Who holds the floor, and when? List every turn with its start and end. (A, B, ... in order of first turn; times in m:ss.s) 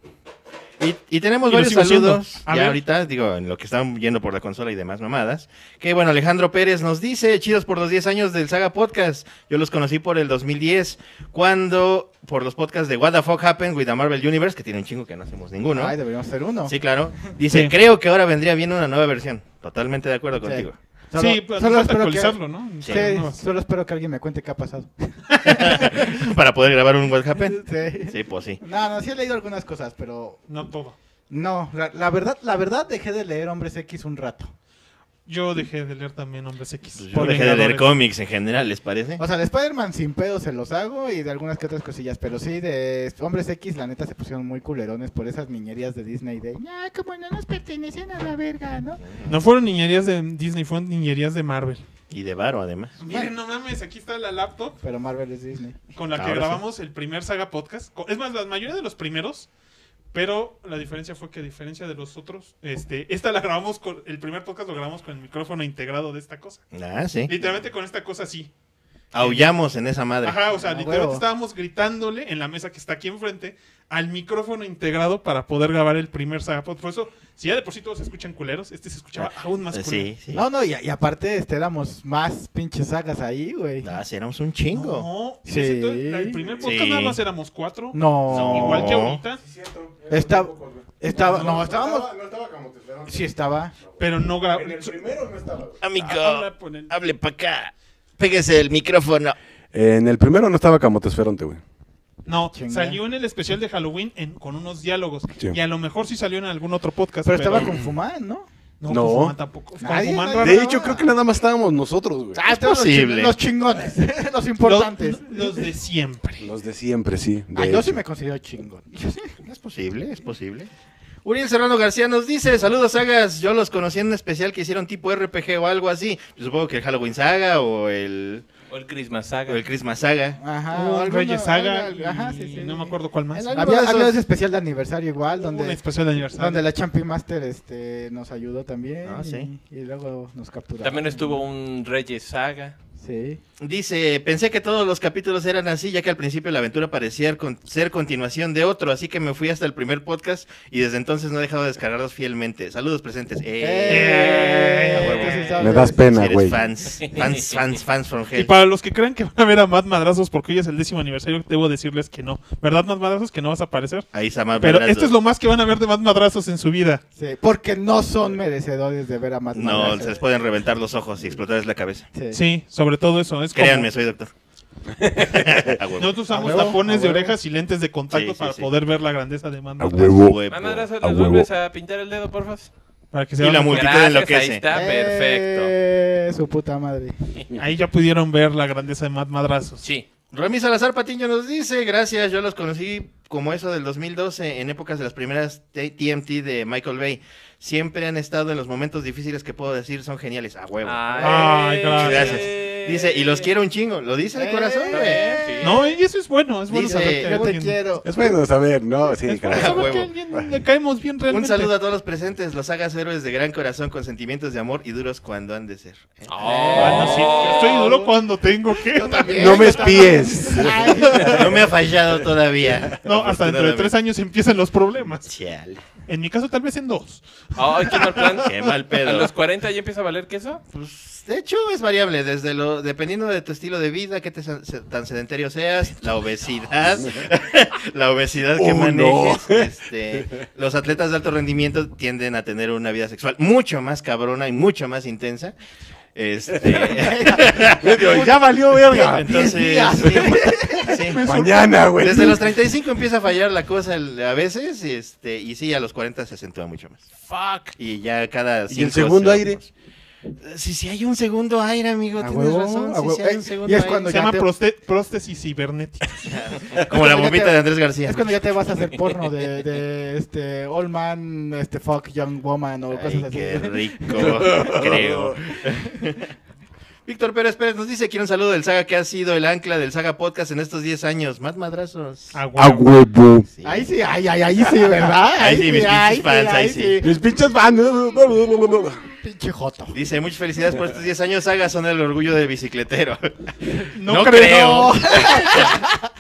0:00.8-0:16.0 A
0:01.5-0:02.8 B
0:15.7-0:16.8 C
0:16.7-0:20.8 A
0:17.5-0:17.8 B
0:20.4-0:26.3 C
0:21.2-0:23.4 B
0:22.8-0:23.1 A
0:25.3-0:25.6 B
0:25.5-0:28.6 A
0:27.4-0:30.4 C
0:30.5-0:31.0 B
0:31.3-0:34.5 C
0:35.3-0:37.9 B
0:37.0-0:39.2 A
0:39.2-0:49.0 C
0:49.0-0:49.3 A
0:49.3-0:51.8 B
0:52.1-0:53.0 A
0:53.0-0:54.8 B
0:53.1-0:53.3 C
0:54.8-0:55.8 C
0:55.9-0:59.5 B
0:56.2-0:56.6 A
1:00.1-1:06.6 B
1:06.7-1:07.3 A
1:07.3-1:08.5 B
1:09.1-1:10.4 A
1:09.2-1:09.5 B
1:10.2-1:20.1 B
1:10.5-1:11.2 C
1:19.2-1:20.4 A
1:20.3-1:23.9 C
1:23.8-1:25.1 A
1:24.7-1:29.4 B
1:25.4-1:26.6 C
1:26.6-1:27.2 A
1:27.9-1:29.0 C
1:28.3-1:29.2 A
1:29.4-1:35.8 D
1:30.1-1:32.1 C
1:33.1-1:33.8 C
1:34.0-1:35.1 B
1:35.8-1:39.4 A
1:36.0-1:36.9 B
1:39.7-1:41.6 D
1:42.3-1:47.8 B
1:42.5-1:43.0 C
1:47.2-1:48.5 C
1:48.8-1:50.7 B
1:48.9-1:49.4 D
1:49.8-1:51.1 C
1:50.4-1:52.4 D
1:52.3-1:55.7 C
1:52.5-1:53.4 A
1:54.6-1:56.5 B
1:56.4-1:58.0 D
1:57.5-1:59.4 C
1:59.4-2:00.7 A
2:01.2-2:08.5 A
2:08.7-2:09.6 E
2:09.5-2:10.4 A
2:10.4-2:13.0 C
2:10.7-2:13.5 B
2:13.3-2:14.2 A
2:13.5-2:15.8 C
2:15.4-2:16.6 B
2:16.3-2:21.4 C
2:19.0-2:19.5 A
2:20.8-2:22.8 E
2:23.0-2:23.4 C
2:23.6-2:34.3 A
2:33.6-2:36.4 C
2:33.9-2:35.5 B
2:35.0-2:38.5 A
2:35.6-2:36.6 D
2:37.0-2:37.6 E
2:38.3-2:47.0 B
2:44.1-2:45.1 A
2:47.2-2:50.2 C
2:49.6-2:52.1 A
2:52.1-2:52.4 C
2:52.3-2:53.9 B
2:53.6-2:54.3 A
2:55.2-2:56.7 A
2:56.0-3:00.2 B
2:56.3-2:57.4 C
2:58.1-2:58.7 A
2:59.8-3:00.4 D
3:00.1-3:00.9 A
3:00.5-3:02.7 E
3:01.0-3:01.5 D
3:03.1-3:03.9 B
3:03.4-3:04.6 A
3:03.7-3:05.7 E
3:04.7-3:07.3 C
3:07.6-3:09.9 B
3:10.3-3:21.0 A
3:20.8-3:23.5 E
3:21.1-3:21.8 C
3:21.2-3:22.4 B
3:21.9-3:25.4 A
3:24.3-3:25.9 C
3:24.9-3:25.7 E
3:25.6-3:27.9 B
3:26.7-3:27.5 A
3:26.7-3:28.3 C
3:28.0-3:30.5 D
3:29.1-3:31.7 B
3:29.5-3:30.1 A
3:31.3-3:37.1 A
3:36.3-3:37.9 E
3:36.4-3:38.1 C
3:36.8-3:41.5 B
3:38.7-3:41.6 C
3:39.3-3:41.4 D
3:41.3-3:43.9 A
3:43.0-3:45.3 B
3:45.2-3:45.8 A
3:46.1-3:48.4 B
3:47.6-3:50.6 E
3:48.4-3:49.3 A
3:50.7-4:05.6 A
3:58.6-4:00.4 D
4:06.2-4:08.1 A
4:06.8-4:07.6 C
4:07.8-4:09.3 D
4:08.0-4:09.6 B
4:09.2-4:11.2 A
4:09.4-4:11.1 C
4:10.9-4:11.8 B
4:11.2-4:12.5 D
4:12.0-4:17.0 A
4:17.2-4:17.8 E
4:17.8-4:19.7 A
4:18.7-4:19.6 D
4:20.4-4:24.1 A
4:22.2-4:24.5 C
4:24.1-4:26.1 B
4:26.3-4:28.4 A
4:26.8-4:34.6 C
4:32.9-4:36.3 A
4:34.2-4:35.5 D
4:37.1-4:42.4 A
4:42.3-4:42.9 B
4:42.6-4:43.5 D
4:43.5-4:43.9 A
4:43.6-4:47.2 C
4:45.3-4:47.0 A
4:47.0-4:49.1 D
4:49.0-4:50.0 C
4:49.9-4:55.7 A
4:53.9-4:55.4 B
4:54.3-4:56.1 C